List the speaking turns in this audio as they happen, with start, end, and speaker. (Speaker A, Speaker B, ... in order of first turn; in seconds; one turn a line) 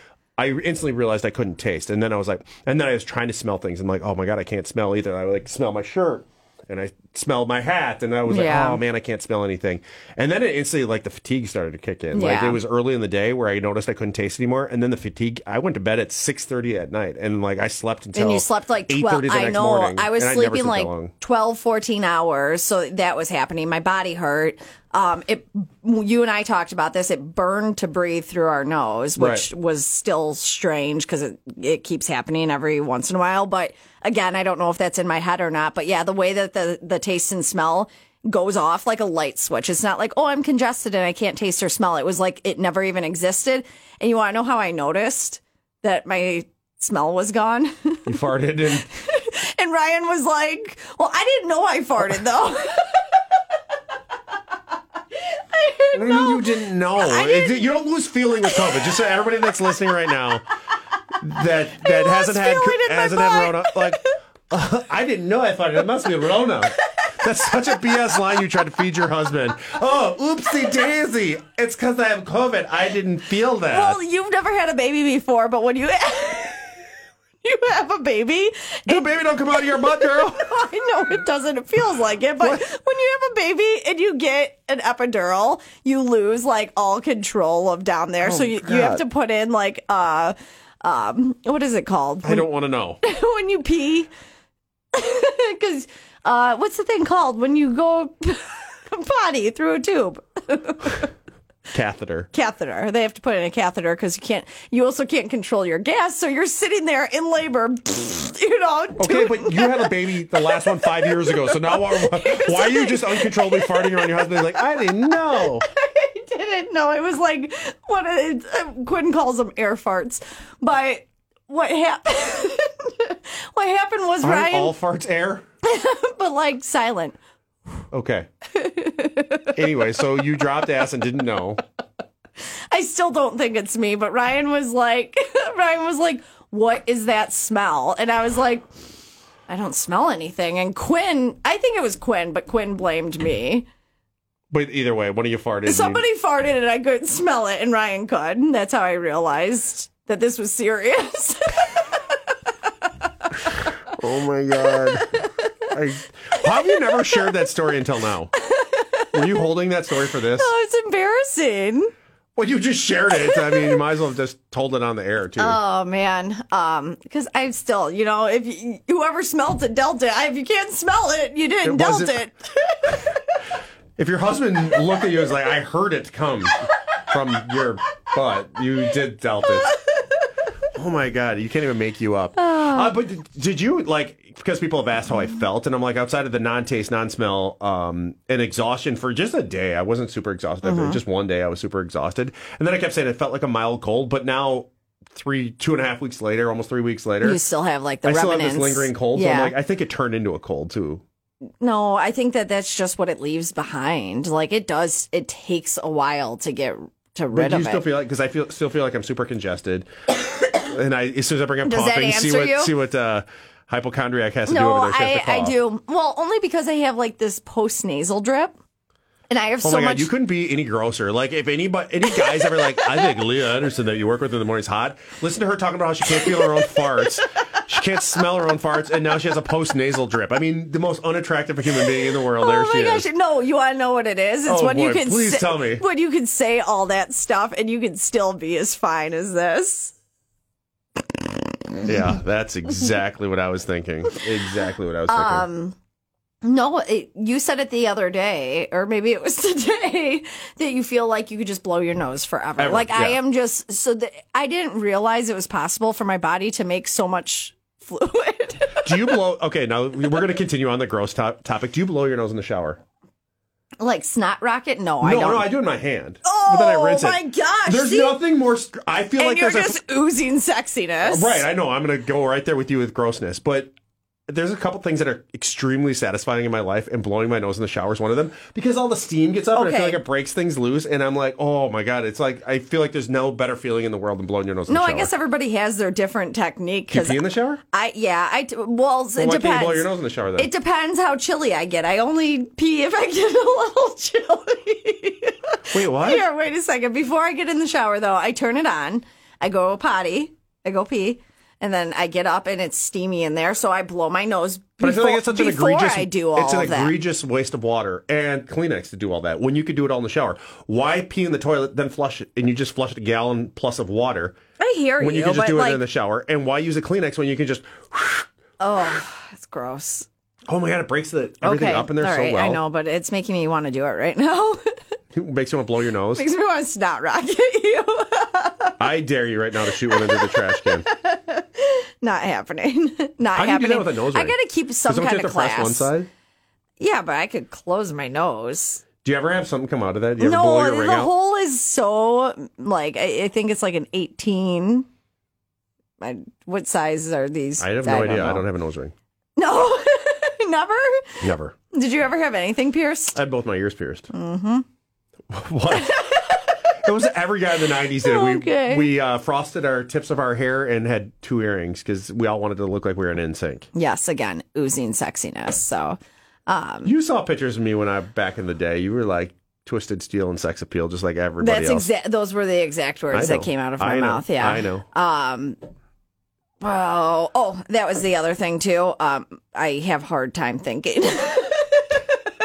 Speaker A: 0.4-21.1
Speaker B: 8.3-8.8
Speaker B: 12.1-12.6
Speaker B: 18.1-48.2
Speaker A: 29.1-29.5
Speaker A: 48.0-48.9
Speaker B: 48.8-53.2
Speaker B: 55.1-57.7
Speaker A: 55.9-60.4
Speaker B: 58.5-58.8
Speaker A: 61.2-74.0
Speaker B: 61.7-64.1
Speaker B: 73.7-76.8
Speaker B: 77.4-92.5
Speaker A: 78.9-80.5
Speaker A: 82.4-82.7
Speaker A: 88.2-89.0
Speaker A: 92.2-93.0
Speaker B: 93.0-94.1
Speaker B: 94.9-101.1
Speaker A: 101.7-102.3
Speaker B: 102.3-109.9
Speaker A: 109.0-115.6
Speaker B: 110.5-124.8
Speaker A: 124.2-125.4
Speaker B: 125.6-127.2
Speaker A: 127.9-128.3
Speaker B: 128.6-129.5
Speaker A: 129.5-131.6
Speaker B: 132.7-138.7
Speaker B: 139.5-143.7
Speaker A: 144.5-146.0
Speaker B: 145.7-152.0
Speaker A: 153.9-158.3
Speaker B: 154.6-155.2
Speaker B: 156.9-157.3
Speaker B: 158.3-159.4
Speaker A: 159.1-160.5
Speaker B: 160.2-161.9
Speaker A: 162.3-165.6
Speaker B: 163.2-163.8
Speaker B: 165.4-173.2
Speaker A: 171.6-172.2
Speaker A: 174.0-179.8
Speaker A: 180.7-197.4
Speaker B: 182.4-182.9
Speaker B: 190.6-191.0
Speaker B: 197.2-199.5
Speaker A: 198.0-201.0
Speaker B: 201.6-207.9
Speaker A: 207.3-209.9
Speaker A: 210.6-215.6
Speaker B: 211.6-212.7
Speaker B: 214.5-218.5
Speaker B: 219.3-220.1
Speaker A: 219.6-233.1
Speaker B: 222.1-223.2
Speaker B: 226.1-227.1
Speaker B: 231.7-239.9
Speaker A: 234.4-235.8
Speaker A: 241.8-245.5
Speaker B: 245.1-245.8
Speaker B: 246.4-259.2
Speaker A: 252.6-253.2
Speaker A: 258.8-262.8
Speaker B: 263.8-265.5
Speaker A: 265.0-269.8
Speaker B: 266.2-268.2
Speaker B: 269.2-271.4
Speaker A: 271.0-273.7
Speaker A: 274.3-285.1
Speaker B: 279.5-280.0
Speaker B: 284.7-307.0
Speaker A: 286.9-287.6
Speaker A: 289.2-290.5
Speaker A: 295.7-296.2
Speaker A: 304.8-314.4
Speaker B: 314.6-315.8
Speaker A: 315.0-318.2
Speaker B: 318.6-320.1
Speaker A: 320.5-322.6
Speaker B: 321.4-324.6
Speaker A: 325.1-326.2
Speaker B: 326.1-328.8
Speaker A: 328.8-330.9
Speaker B: 329.7-335.9
Speaker A: 333.3-336.1
Speaker B: 336.8-338.8
Speaker A: 339.0-341.1
Speaker B: 340.2-344.9
Speaker B: 346.0-348.5
Speaker A: 347.6-348.9
Speaker B: 349.4-353.2
Speaker A: 351.2-351.5
Speaker A: 353.1-354.1
Speaker B: 354.1-354.6
Speaker A: 355.3-356.0
Speaker B: 355.7-356.7
Speaker A: 356.8-363.7
Speaker B: 357.9-358.9
Speaker B: 363.7-366.9
Speaker A: 366.8-371.9
Speaker B: 371.4-375.6
Speaker A: 373.1-374.8
Speaker B: 376.6-382.0